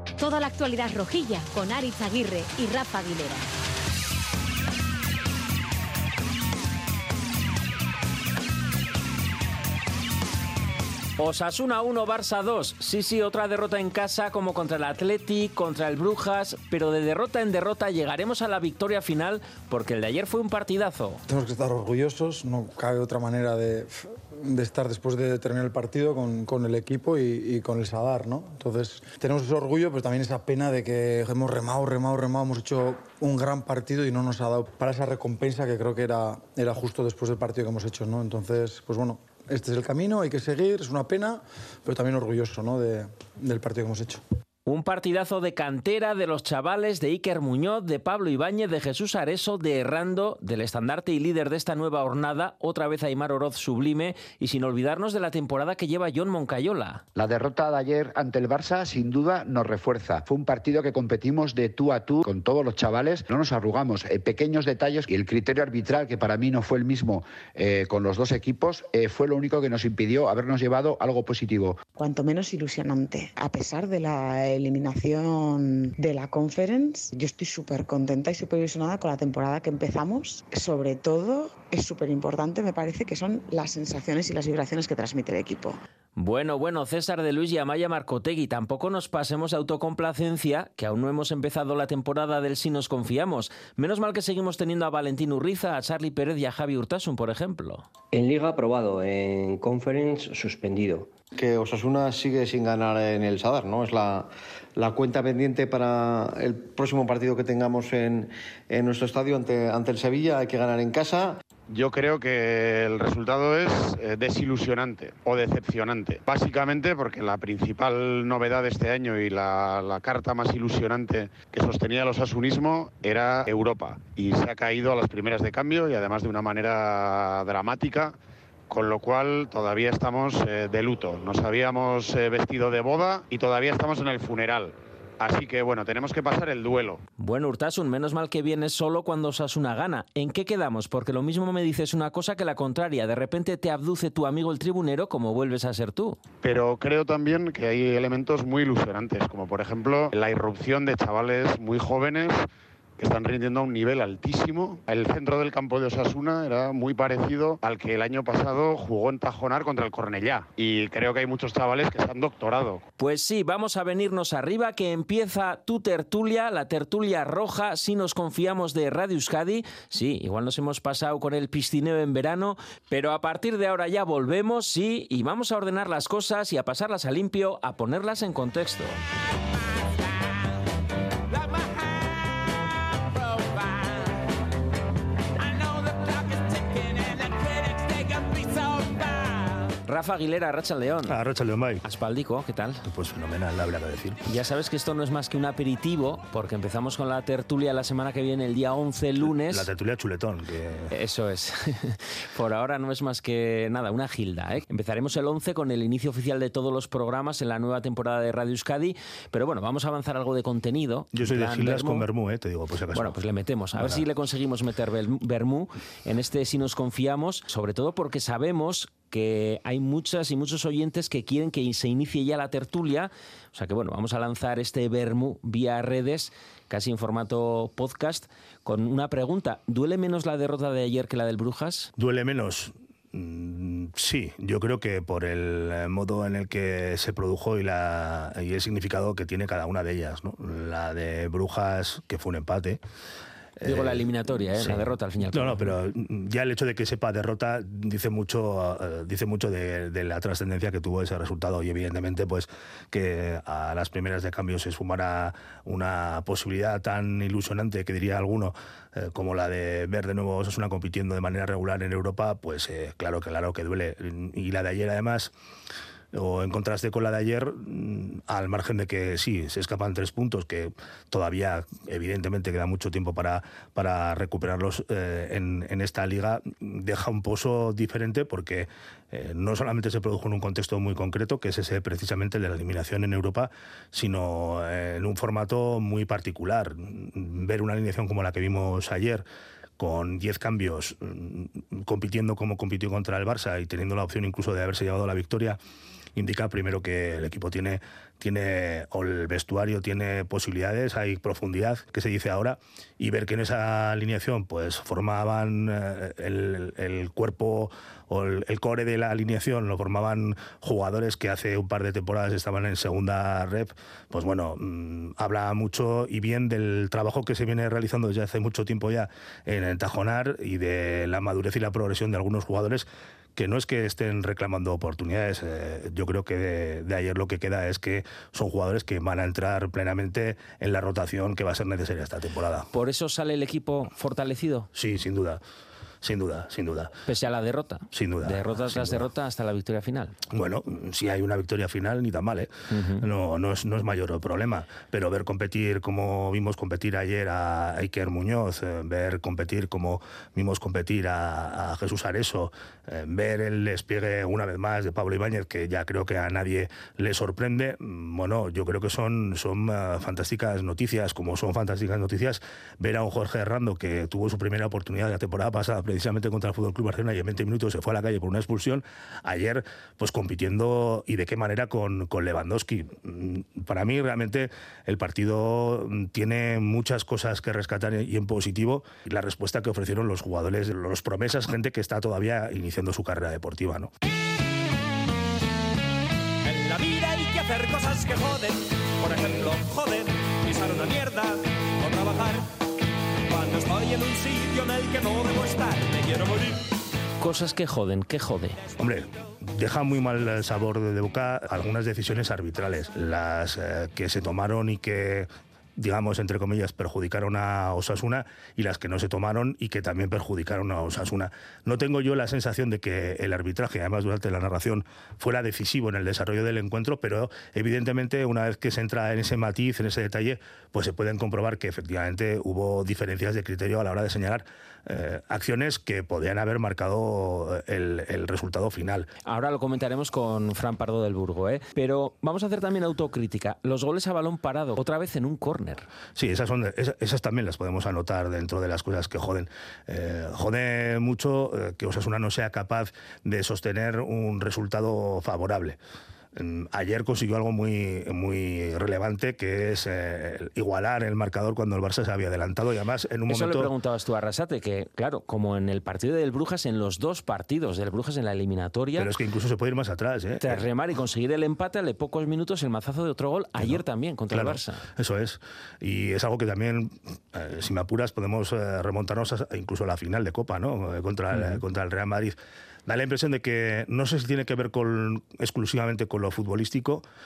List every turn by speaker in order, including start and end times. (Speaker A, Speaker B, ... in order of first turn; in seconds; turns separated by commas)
Speaker A: 0.2-3.5, Speaker B: 11.2-21.2, Speaker C: 21.3-44.2, Speaker B: 44.6-57.0, Speaker D: 57.1-71.8, Speaker E: 72.0-85.8, Speaker B: 86.2-97.8, Speaker F: 98.1-101.1, Speaker G: 101.3-111.4, Speaker H: 111.7-128.2, Speaker H: 128.7-137.0, Speaker B: 137.2-146.2, Speaker H: 146.4-162.8, Speaker B: 163.0-179.0, Speaker I: 181.3-182.3, Speaker I: 183.1-184.1, Speaker I: 185.4-189.7, Speaker B: 189.8-191.2, Speaker J: 191.1-191.8, Speaker B: 191.8-192.8, Speaker J: 192.8-194.2, Speaker B: 194.2-199.7, Speaker J: 199.5-200.9, Speaker B: 200.9-212.1, Speaker J: 211.1-213.2, Speaker B: 212.9-231.9, Speaker J: 213.7-214.0, Speaker J: 232.0-242.8, Speaker J: 243.6-265.3, Speaker B: 243.6-245.7, Speaker J: 266.1-289.2, Speaker J: 289.8-295.6, Speaker J: 296.1-332.7, Speaker B: 332.7-334.7, Speaker J: 334.7-335.4, Speaker J: 336.0-336.9, Speaker B: 337.1-340.1, Speaker J: 337.9-339.1, Speaker J: 340.3-383.9, Speaker B: 342.7-343.0, Speaker I: 386.4-392.5, Speaker I: 393.3-396.7, Speaker B: 397.2-398.6, Speaker J: 398.8-429.1, Speaker B: 429.2-435.9, Speaker J: 436.1-445.8, Speaker J: 446.3-453.7, Speaker B: 453.3-459.1, Speaker J: 459.0-460.6, Speaker B: 460.4-464.8, Speaker J: 463.6-477.0, Speaker B: 471.3-471.6